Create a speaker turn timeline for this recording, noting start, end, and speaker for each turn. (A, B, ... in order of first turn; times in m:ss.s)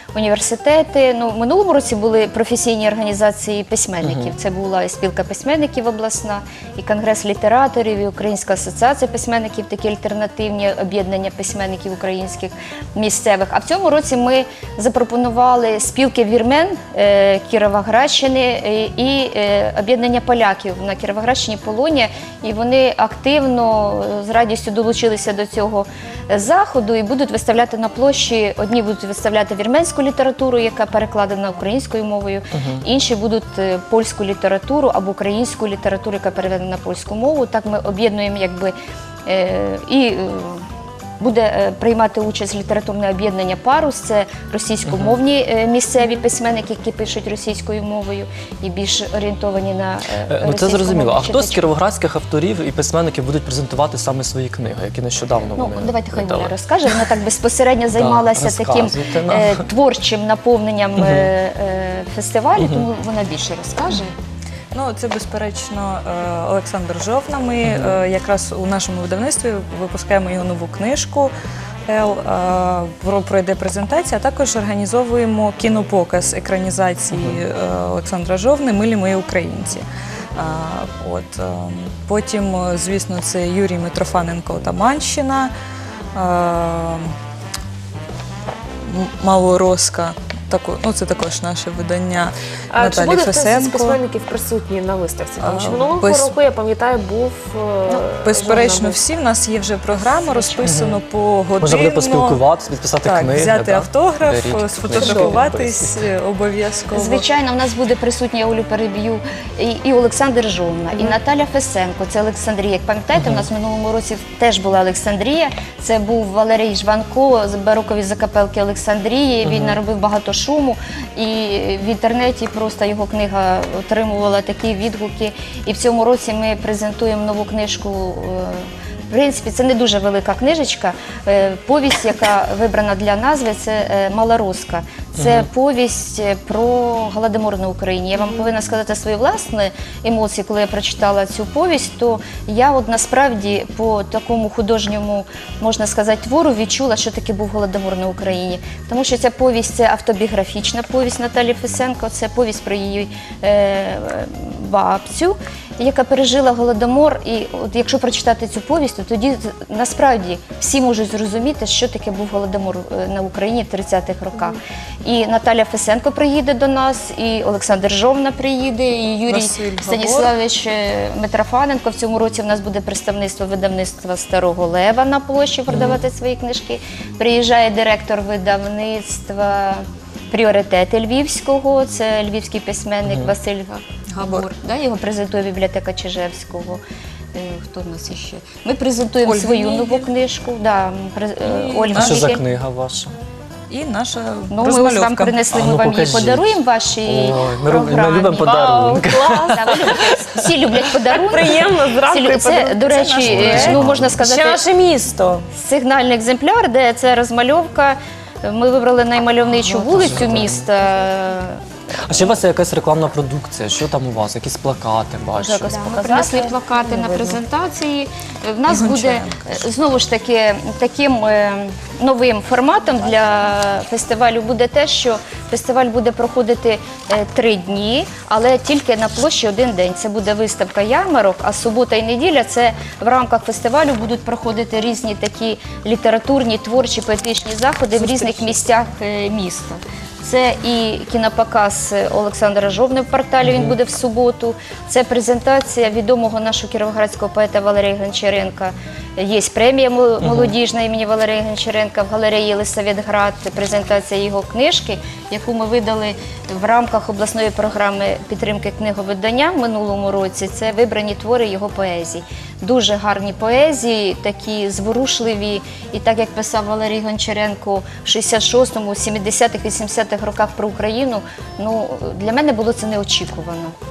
0:00.1-0:38.7 A
0:04.0-0:04.3 B
0:32.5-0:32.8 B
0:39.2-0:40.6 A
0:41.2-0:51.6 A
0:44.8-0:45.2 B
0:50.3-0:56.5 B
0:55.5-1:04.1 A
0:57.9-0:59.6 B
1:01.0-1:01.3 B
1:02.6-1:02.9 B
1:04.7-1:11.3 C
1:07.6-1:08.0 B
1:11.9-1:25.5 C
1:17.1-1:17.4 B
1:26.1-1:27.1 C
1:28.8-1:34.0 C
1:32.7-1:39.0 D
1:35.4-1:36.3 C
1:38.2-1:42.4 C
1:40.0-1:40.7 A
1:40.6-1:41.0 B
1:41.6-1:46.0 B
1:43.0-1:47.2 C
1:44.9-1:45.4 D
1:46.9-3:06.8 A
1:53.1-1:53.5 B
1:59.4-1:59.8 B
2:15.2-2:15.5 B
2:49.3-2:50.3 C
2:55.7-2:56.0 B
3:03.0-3:03.4 B
3:04.1-3:04.4 C
3:07.3-3:12.4 A
3:09.2-3:10.1 C
3:11.4-3:12.3 C
3:11.9-3:13.1 B
3:13.7-3:15.4 C
3:14.5-3:18.7 A
3:15.5-3:20.1 B
3:18.4-3:20.1 D
3:19.5-3:24.6 A
3:21.1-3:25.5 D
3:23.0-3:23.7 C
3:23.3-3:24.1 B
3:25.5-3:31.6 A
3:29.9-3:30.6 B
3:32.0-3:35.8 B
3:35.4-3:36.5 D
3:35.5-4:33.7 A
3:38.7-3:39.5 C
3:58.1-3:58.4 C
4:03.4-4:03.7 B
4:10.2-4:10.5 B